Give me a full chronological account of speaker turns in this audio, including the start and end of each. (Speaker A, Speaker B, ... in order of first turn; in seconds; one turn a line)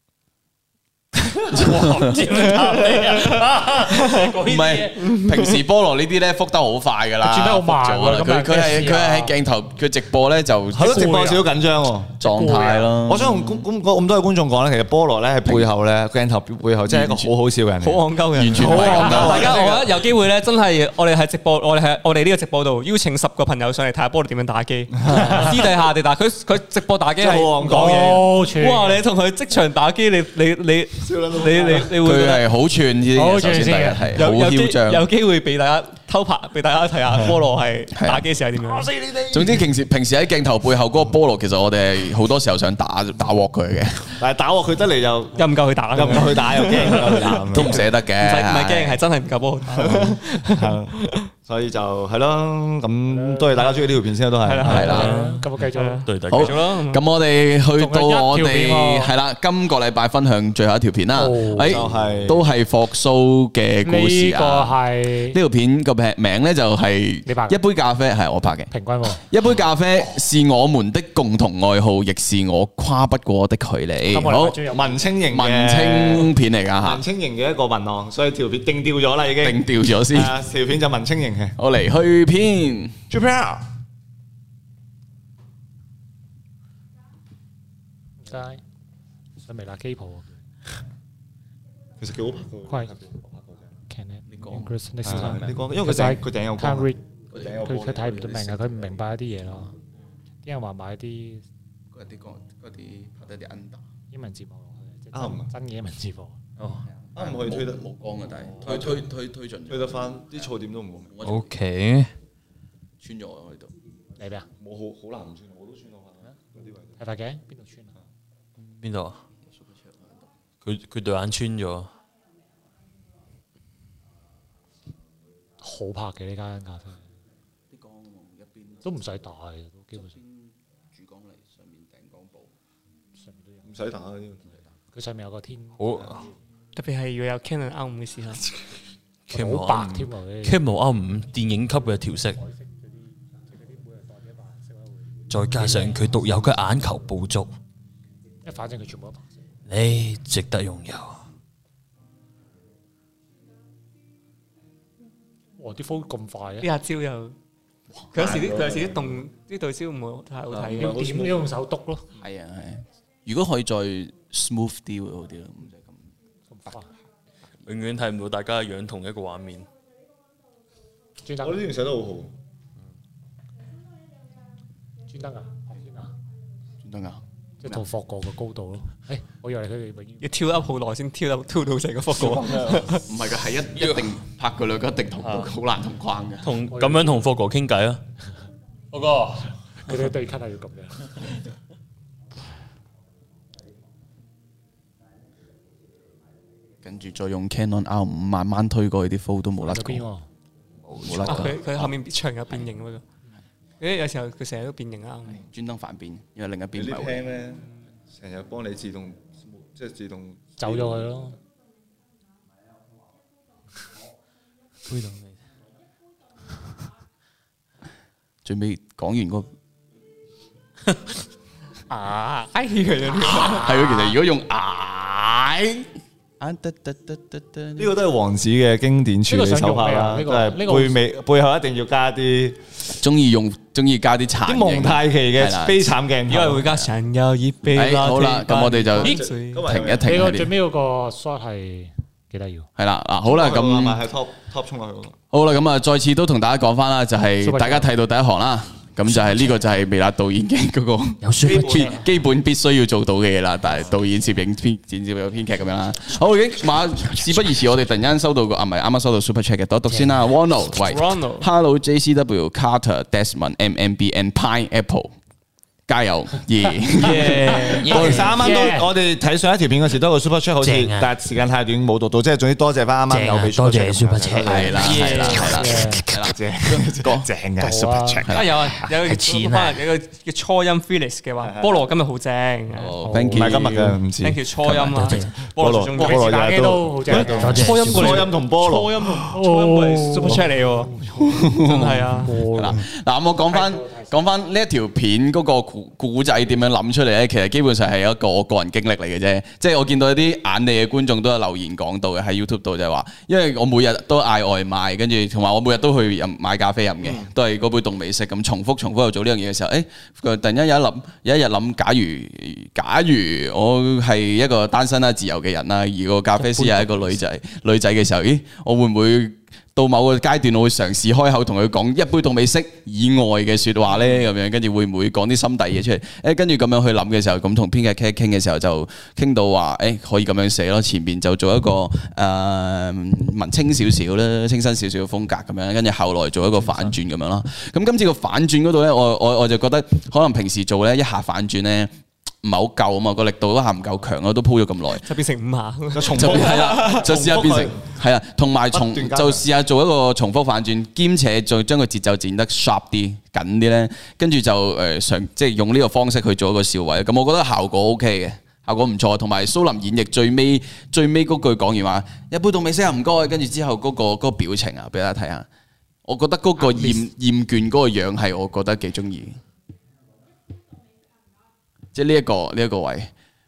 Speaker A: 1.5-5.0
Speaker B: 1.5-2.3
Speaker C: 3.9-4.3
Speaker B: 4.4-11.2
Speaker C: 5.0-5.5
Speaker D: 7.2-9.3
Speaker E: 10.7-12.2
Speaker D: 10.8-11.4
Speaker B: 12.2-13.5
Speaker D: 12.2-12.9
Speaker E: 13.0-19.9
Speaker B: 16.9-17.3
Speaker C: 17.8-32.5
Speaker B: 18.3-19.5
Speaker E: 25.1-25.4
Speaker D: 25.1-25.4
Speaker E: 27.2-28.2
Speaker D: 27.6-29.0
Speaker E: 31.0-31.9
Speaker B: 31.9-35.1
Speaker D: 33.1-34.1
Speaker C: 34.1-38.9
Speaker B: 37.9-38.2
Speaker B: 39.3-44.2
Speaker E: 44.2-47.9
Speaker C: 45.4-51.3
Speaker B: 47.5-49.0
Speaker E: 49.8-55.1
Speaker D: 53.1-53.8
Speaker C: 54.4-57.0
Speaker B: 54.6-55.1
Speaker D: 54.7-56.1
Speaker A: 54.7-55.5
Speaker A: 56.1-56.6
Speaker B: 56.3-64.8
Speaker D: 57.8-59.1
Speaker D: 61.1-61.9
Speaker E: 61.6-62.4
Speaker D: 63.8-65.4
Speaker B: 65.3-74.6
Speaker D: 67.3-67.6
Speaker D: 68.7-69.2
Speaker D: 74.1-75.2
Speaker E: 74.7-81.6
Speaker B: 75.3-77.0
Speaker B: 79.4-80.4
Speaker B: 81.6-83.0
Speaker E: 83.1-83.7
Speaker D: 88.2-88.6
Speaker D: 89.4-90.4
Speaker E: 92.0-93.7
Speaker D: 93.9-99.7
Speaker B: 94.3-94.7
Speaker E: 95.0-98.7
Speaker B: 97.3-98.5
Speaker D: 100.5-101.5
Speaker B: 101.9-103.8
Speaker D: 104.1-106.4
Speaker E: 105.1-105.5
Speaker A: 106.6-106.8
Speaker B: 107.0-109.9
Speaker E: 107.2-107.8
Speaker E: 108.6-109.0
Speaker E: 109.7-111.1
Speaker B: 111.1-111.5
Speaker A: 111.2-112.1
Speaker B: 113.0-113.7
Speaker D: 114.2-114.5
Speaker E: 114.6-117.0
Speaker D: 117.0-117.9
Speaker A: 118.6-119.2
Speaker B: 119.5-120.3
Speaker A: 120.6-121.9
Speaker D: 125.6-127.0
Speaker B: 127.7-128.9
Speaker D: 128.8-130.1
Speaker B: 130.0-132.5
Speaker D: 133.2-133.7
Speaker E: 133.7-134.4
Speaker D: 134.9-136.3
Speaker A: 135.8-136.2
Speaker C: 136.8-138.5
Speaker A: 139.3-142.4
Speaker D: 139.3-140.6
Speaker D: 142.4-142.9
Speaker D: 143.5-144.9
Speaker A: 145.3-147.5
Speaker D: 145.5-146.0
Speaker D: 148.4-149.3
Speaker A: 149.7-151.2
Speaker D: 155.6-156.7
Speaker C: 156.6-157.3
Speaker C: 158.1-161.0
Speaker E: 158.1-159.1
Speaker E: 160.5-161.5
Speaker D: 160.8-162.1
Speaker B: 162.2-166.0
Speaker D: 166.5-166.9
Speaker A: 167.7-169.7
Speaker D: 171.2-171.6
Speaker E: 171.4-172.3
Speaker D: 175.1-176.1
Speaker B: 176.8-177.8
Speaker D: 177.6-180.2
Speaker C: 180.2-183.1
Speaker B: 183.1-186.5
Speaker A: 183.8-184.1
Speaker A: 185.2-185.5
Speaker A: 186.4-188.0
Speaker D: 186.7-187.2
Speaker A: 188.9-189.4
Speaker D: 189.9-191.1
Speaker B: 196.8-200.1
Speaker D: 199.6-200.3
Speaker A: 200.9-201.5
Speaker B: 201.0-201.9
Speaker C: 201.2-203.0
Speaker C: 203.8-205.4
Speaker B: 205.5-207.2
Speaker E: 206.8-211.1
Speaker D: 210.6-211.4
Speaker A: 214.9-215.4
Speaker B: 218.4-219.5
Speaker C: 221.9-224.2
Speaker B: 223.2-225.9
Speaker B: 226.4-227.9
Speaker E: 227.8-232.6
Speaker D: 229.3-231.0
Speaker B: 233.0-235.8
Speaker E: 234.4-236.6
Speaker C: 236.3-239.6
Speaker B: 236.6-236.9
Speaker B: 237.7-240.5
Speaker E: 239.0-240.3
Speaker D: 240.1-242.7
Speaker B: 242.8-244.0
Speaker E: 243.2-245.2
Speaker B: 245.3-265.1
Speaker D: 247.4-247.9
Speaker A: 251.2-252.0
Speaker E: 251.5-251.9
Speaker D: 251.5-252.0
Speaker C: 260.7-261.5
Speaker B: 265.9-268.1
Speaker C: 267.0-268.3
Speaker A: 267.0-268.7
Speaker D: 267.3-268.9
Speaker E: 267.8-275.4
Speaker A: 270.6-271.1
Speaker A: 273.1-276.1
Speaker B: 274.5-277.3
Speaker C: 275.0-275.3
Speaker D: 275.5-276.0
Speaker E: 276.1-278.4
Speaker D: 277.6-278.2
Speaker B: 278.2-278.6
Speaker C: 278.3-283.0
Speaker A: 278.8-279.8
Speaker E: 281.4-281.8
Speaker B: 282.8-283.9
Speaker D: 283.0-283.6
Speaker E: 283.3-284.4
Speaker C: 284.2-286.5
Speaker B: 284.6-285.2
Speaker A: 284.9-285.3
Speaker E: 285.1-289.3
Speaker D: 285.9-287.8
Speaker C: 287.1-290.9
Speaker A: 287.4-288.3
Speaker D: 289.2-292.8
Speaker B: 291.2-341.9
Speaker C: 291.6-292.4
Speaker D: 293.5-294.1
Speaker B: 342.4-345.1
Speaker C: 345.0-346.9
Speaker E: 345.9-347.8
Speaker B: 346.1-365.5
Speaker E: 348.7-349.4
Speaker B: 366.1-369.4
Speaker B: 371.9-373.1